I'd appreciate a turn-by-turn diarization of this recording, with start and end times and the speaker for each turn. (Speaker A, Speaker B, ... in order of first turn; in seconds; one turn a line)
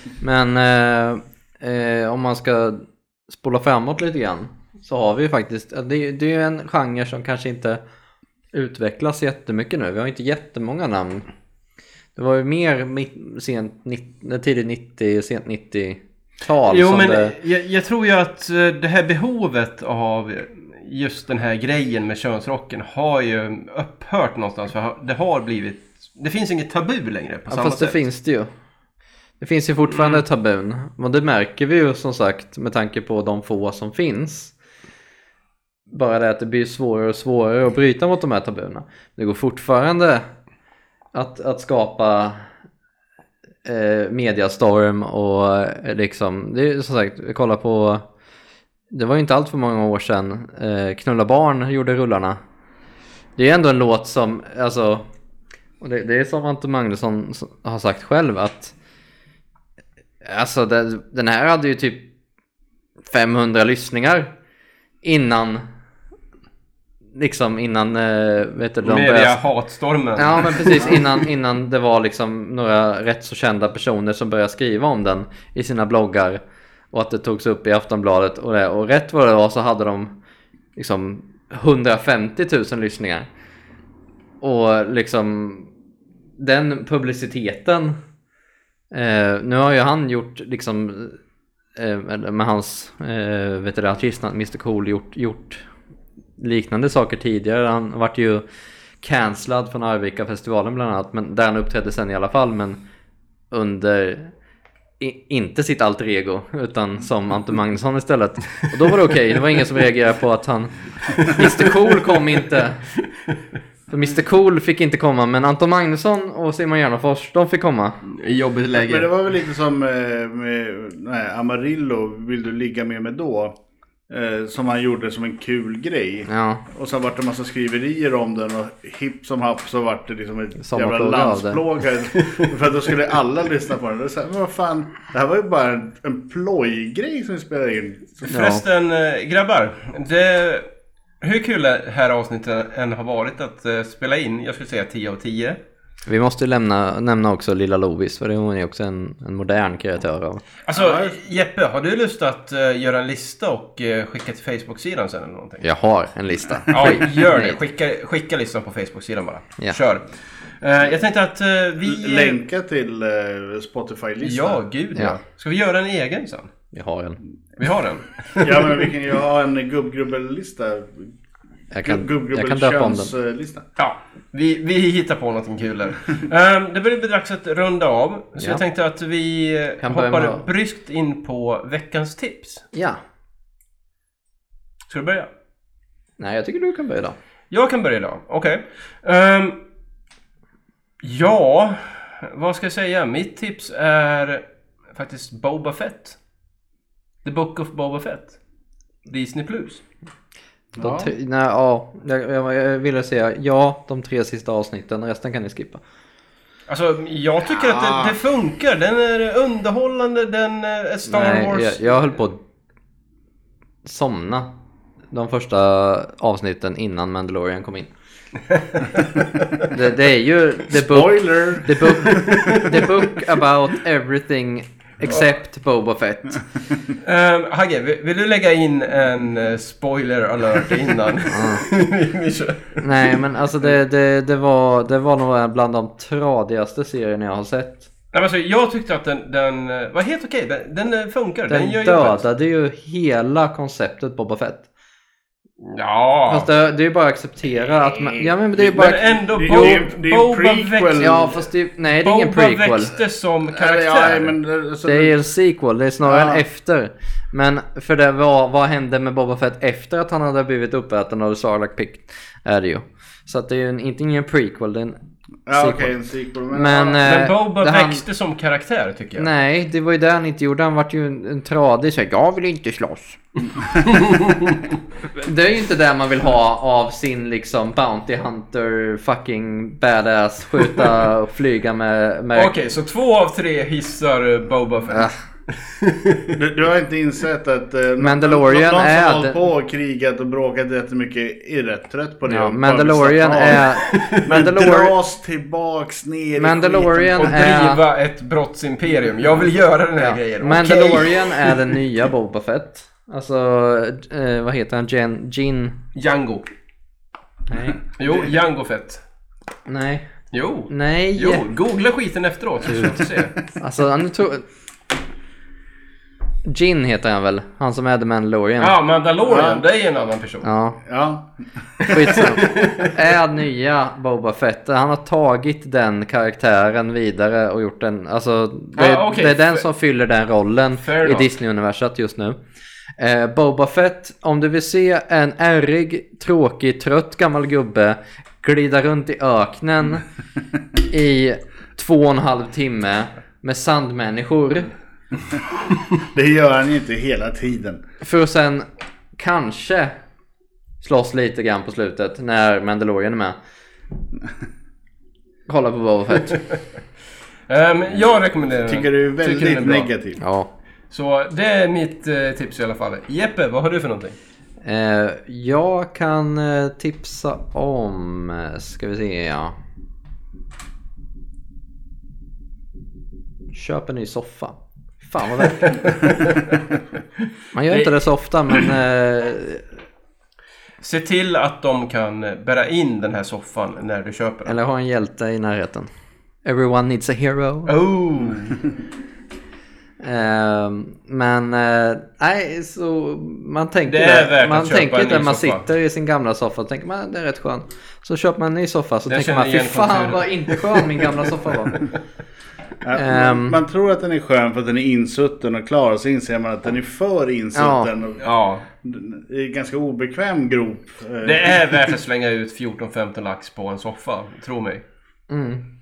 Speaker A: 0.2-7.8
Speaker A: 8.5-11.3
Speaker A: 12.2-17.4
Speaker B: 16.6-28.0
Speaker A: 27.5-28.5
Speaker A: 29.4-34.5
Speaker A: 35.9-40.3
Speaker A: 41.1-42.5
Speaker A: 43.6-48.1
Speaker A: 48.9-52.4
Speaker A: 53.4-55.0
Speaker A: 55.8-58.7
Speaker A: 60.2-62.1
Speaker A: 63.1-64.3
Speaker A: 65.0-65.6
Speaker A: 67.1-69.4
Speaker B: 68.8-71.1
Speaker A: 70.2-76.4
Speaker A: 76.9-80.1
Speaker A: 80.8-83.3
Speaker A: 84.4-85.7
Speaker A: 86.4-88.0
Speaker A: 88.9-91.2
Speaker A: 91.8-95.7
Speaker A: 96.4-98.4
Speaker A: 99.0-102.8
Speaker A: 103.5-104.3
Speaker A: 105.0-112.8
Speaker B: 111.2-112.2
Speaker A: 113.9-118.0
Speaker B: 118.0-119.1
Speaker C: 118.8-123.6
Speaker C: 124.1-138.3
Speaker A: 126.3-126.6
Speaker A: 130.6-131.6
Speaker B: 132.2-132.4
Speaker B: 138.3-140.7
Speaker A: 138.3-138.6
Speaker B: 141.2-145.6
Speaker A: 146.1-150.4
Speaker B: 150.6-155.6
Speaker C: 150.7-151.2
Speaker A: 155.6-157.6
Speaker B: 156.7-160.1
Speaker B: 160.6-162.4
Speaker C: 161.8-164.6
Speaker B: 164.2-166.5
Speaker A: 166.7-167.2
Speaker B: 167.6-168.9
Speaker C: 168.4-171.1
Speaker A: 171.7-173.1
Speaker C: 171.8-173.7
Speaker B: 173.8-182.7
Speaker A: 179.8-180.4
Speaker A: 182.7-183.0
Speaker B: 184.9-185.3
Speaker A: 186.2-187.2
Speaker B: 187.5-189.6
Speaker B: 191.0-196.2
Speaker B: 197.2-198.4
Speaker B: 199.1-199.8
Speaker C: 200.8-201.1
Speaker A: 200.8-205.8
Speaker B: 206.7-211.8
Speaker C: 207.6-208.1
Speaker A: 211.1-212.4
Speaker A: 213.8-214.5
Speaker A: 215.1-217.9
Speaker B: 218.6-219.1
Speaker A: 219.6-226.4
Speaker C: 220.7-222.4
Speaker B: 222.1-222.9
Speaker B: 227.0-233.2
Speaker A: 231.3-231.6
Speaker A: 232.8-237.9
Speaker B: 238.1-242.2
Speaker A: 241.5-244.7
Speaker B: 245.6-246.5
Speaker A: 246.3-249.8
Speaker C: 248.0-251.4
Speaker B: 248.6-251.3
Speaker A: 251.0-252.9
Speaker B: 252.0-254.3
Speaker C: 253.5-255.2
Speaker A: 254.8-265.0
Speaker C: 256.1-256.4
Speaker C: 265.5-267.1
Speaker A: 265.5-265.9
Speaker A: 266.5-268.0
Speaker B: 267.0-269.3
Speaker A: 269.2-273.2
Speaker B: 273.9-274.6
Speaker A: 275.1-282.5
Speaker B: 282.3-286.4
Speaker C: 286.4-297.4
Speaker A: 288.0-289.4
Speaker A: 292.3-294.9
Speaker B: 293.8-294.6
Speaker A: 296.4-297.8
Speaker B: 297.1-301.6
Speaker A: 300.0-305.8
Speaker B: 305.9-306.4
Speaker A: 307.5-307.8
Speaker B: 308.0-309.0
Speaker A: 309.6-310.1
Speaker B: 310.3-313.4
Speaker A: 310.7-311.4
Speaker A: 313.6-314.4
Speaker A: 316.4-318.8
Speaker B: 318.6-320.5
Speaker C: 319.2-319.6
Speaker A: 320.4-320.8
Speaker C: 320.8-321.9
Speaker B: 321.8-322.9
Speaker A: 321.9-332.4
Speaker B: 328.8-329.6
Speaker B: 330.8-331.3
Speaker A: 333.0-340.1
Speaker A: 340.9-344.7
Speaker C: 346.0-347.8
Speaker A: 348.0-348.6
Speaker A: 349.2-350.0
Speaker A: 350.8-353.4
Speaker A: 355.5-356.4
Speaker B: 357.5-359.9
Speaker C: 358.6-360.2
Speaker A: 360.2-360.5
Speaker B: 360.9-364.2
Speaker A: 364.6-369.6
Speaker A: 373.5-376.1
Speaker B: 375.6-376.4
Speaker A: 377.5-379.7
Speaker B: 380.8-384.5
Speaker A: 384.4-385.9
Speaker A: 386.4-387.7
Speaker B: 387.7-388.6
Speaker A: 390.0-401.9
Speaker B: 393.9-395.6
Speaker B: 399.1-401.9
Speaker C: 402.8-408.3
Speaker A: 402.9-403.6
Speaker A: 407.6-407.9
Speaker B: 408.2-408.6
Speaker C: 408.8-411.7
Speaker B: 411.2-414.8
Speaker A: 415.3-415.6